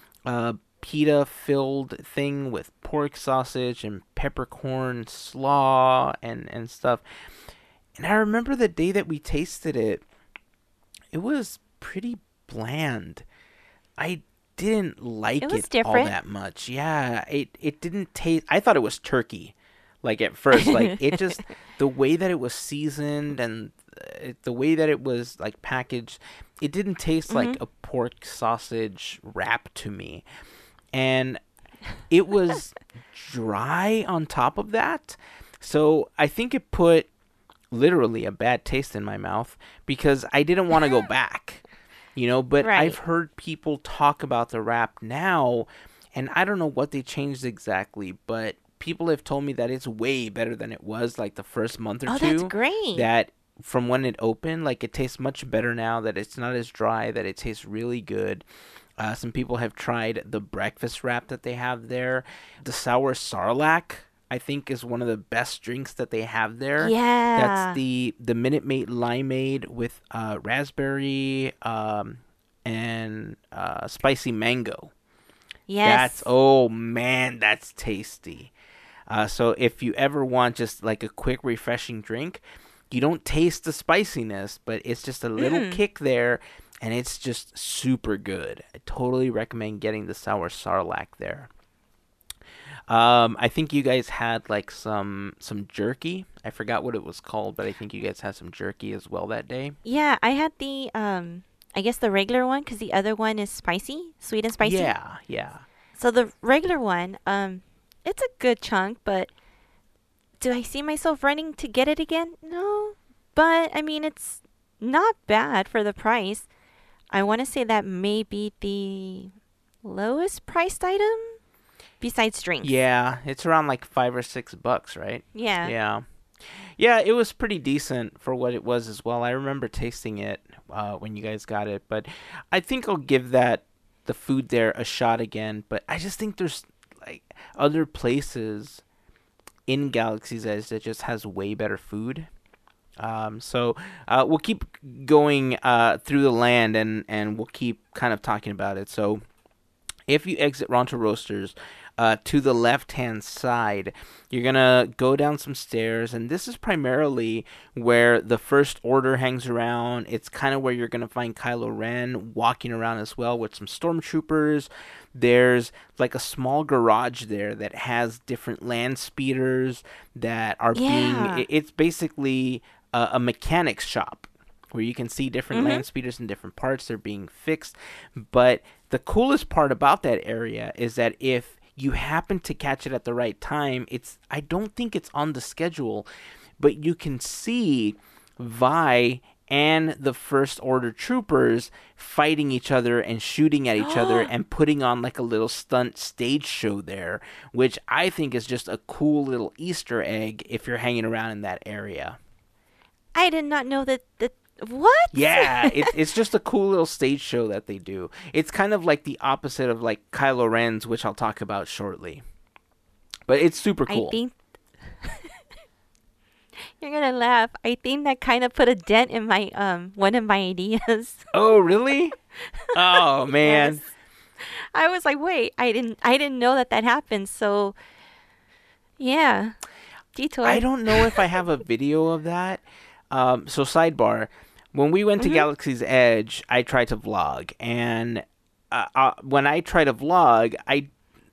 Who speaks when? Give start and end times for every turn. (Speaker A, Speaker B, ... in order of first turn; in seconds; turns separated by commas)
Speaker A: 0.2-7.0, Speaker A: 8.0-10.0, Speaker A: 11.1-13.2, Speaker A: 14.0-30.2, Speaker B: 15.4-16.1, Speaker B: 20.5-20.9, Speaker B: 27.3-27.6, Speaker A: 30.9-31.4, Speaker A: 32.1-37.1, Speaker A: 37.7-41.6, Speaker A: 42.1-58.4, Speaker B: 42.6-43.0, Speaker B: 52.1-53.1, Speaker A: 59.0-74.9, Speaker B: 66.8-67.8, Speaker B: 75.7-76.3, Speaker A: 75.8-78.5, Speaker A: 79.1-91.5, Speaker B: 85.4-85.8, Speaker A: 92.9-99.8, Speaker B: 99.8-104.9, Speaker A: 104.6-105.6, Speaker B: 106.0-109.3, Speaker B: 110.4-116.5, Speaker B: 117.1-119.3, Speaker B: 119.8-121.4, Speaker B: 122.0-122.7, Speaker A: 122.6-126.0, Speaker B: 125.3-125.7, Speaker A: 126.8-138.8, Speaker A: 139.7-142.3, Speaker A: 143.0-149.2, Speaker A: 150.1-186.1, Speaker B: 170.7-171.4, Speaker B: 175.5-175.8, Speaker A: 186.6-202.2, Speaker B: 193.8-194.3, Speaker B: 203.1-205.9, Speaker A: 205.1-212.2, Speaker A: 213.3-214.2, Speaker B: 213.9-214.3, Speaker B: 214.9-215.4, Speaker B: 216.6-221.3, Speaker A: 221.3-222.2, Speaker B: 222.5-223.8, Speaker A: 222.7-223.8, Speaker B: 224.4-227.8, Speaker B: 229.0-229.6, Speaker B: 230.1-231.2, Speaker A: 230.4-240.9, Speaker B: 235.2-235.4